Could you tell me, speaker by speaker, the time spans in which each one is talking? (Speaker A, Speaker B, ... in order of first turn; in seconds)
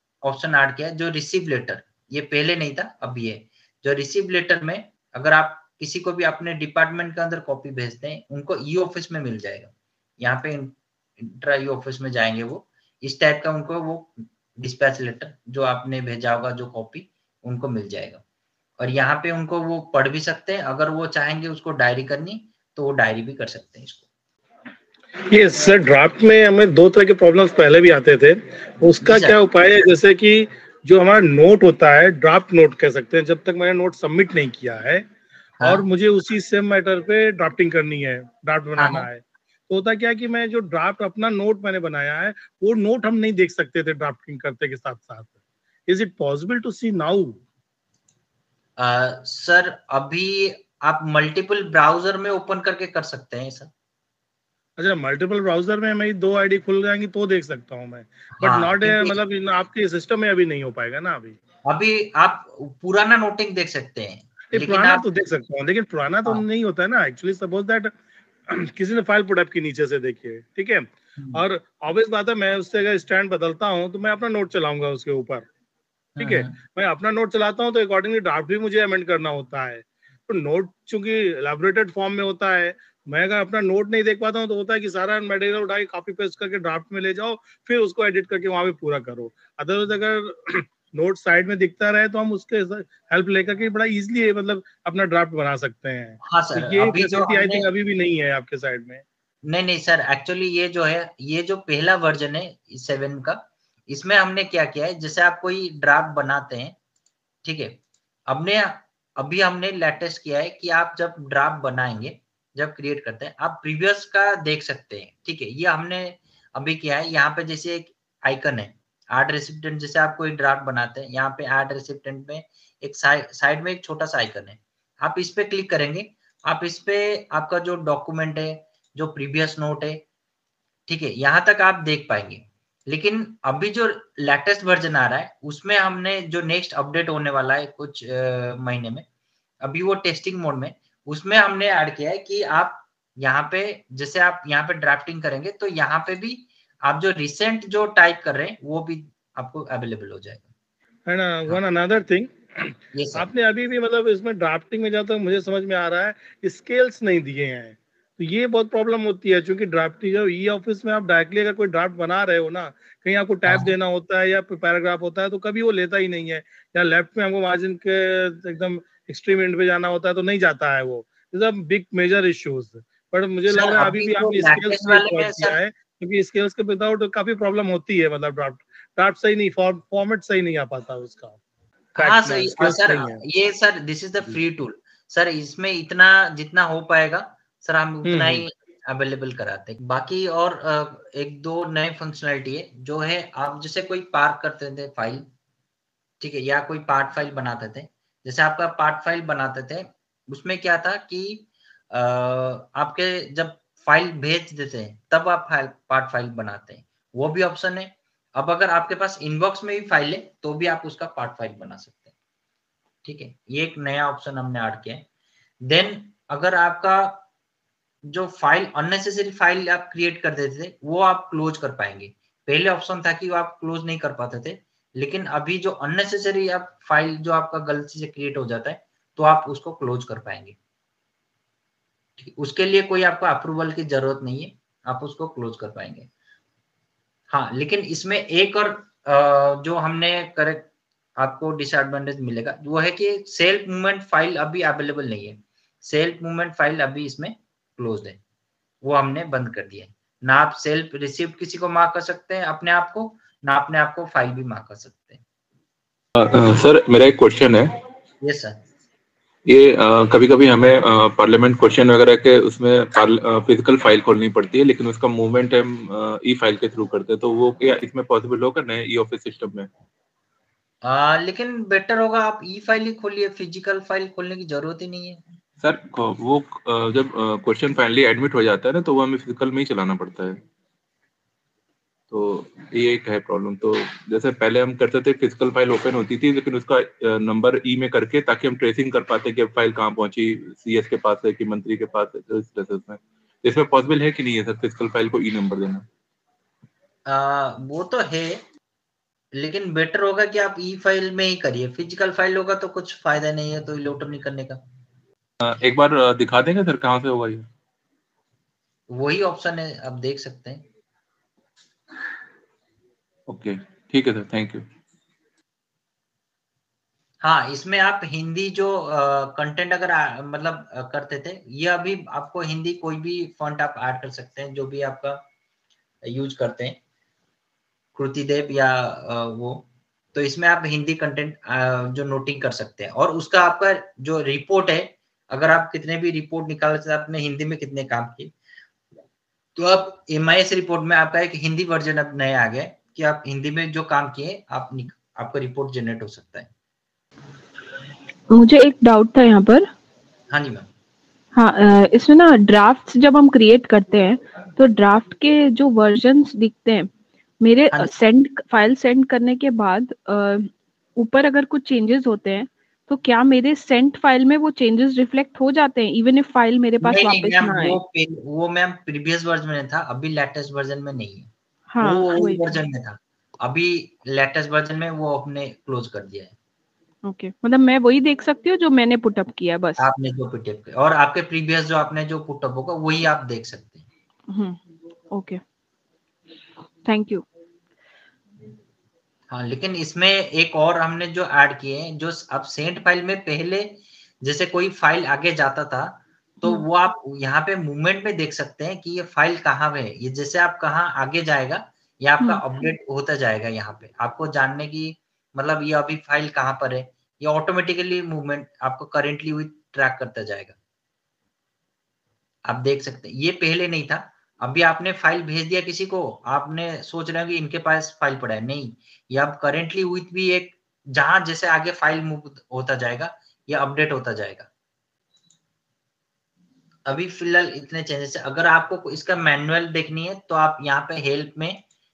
Speaker A: 0.2-18.2, 18.8-24.0, 29.0-29.4, 35.6-35.8, 38.8-39.1, 48.8-53.7, 58.4-59.2, 61.7-65.0, 76.2-76.5, 96.2-97.7, 99.5-106.7, 107.4-107.8, 108.3-130.0, 130.9-139.0, 139.6-150.5, 152.9-153.3, 163.5-163.7, 173.5-175.6, 181.9-195.2, 196.2-212.1, 213.0-215.0, 215.7-217.2, 218.1-230.6, 232.2-236.1, 237.3-240.7, 241.2-248.2, 248.8-255.2, 258.2-258.6, 270.8-275.2, 297.1-298.4, 299.3-304.6, 308.9-310.6, 317.2-325.2, 326.1-326.8, 327.9-338.3, 339.6-346.5, 350.3-350.7, 366.8-371.3, 371.8-376.3, 379.8-383.9, 389.3-410.6, 412.4-424.5, 426.9-431.6
Speaker B: 25.3-35.0, 35.6-45.3, 45.9-47.4, 54.8-61.4, 64.5-67.9, 68.5-75.5, 76.2-99.0, 151.1-181.4, 182.0-183.2, 188.0-188.4
Speaker C: 256.1-257.7, 259.5-269.7, 275.6-280.4, 282.1-295.8, 305.4-307.5, 313.3-314.6
Speaker D: 348.3-349.7, 351.3-356.9, 357.4-367.8, 371.7-372.6, 377.1-379.8, 384.3-384.6, 385.1-385.4, 386.8-387.2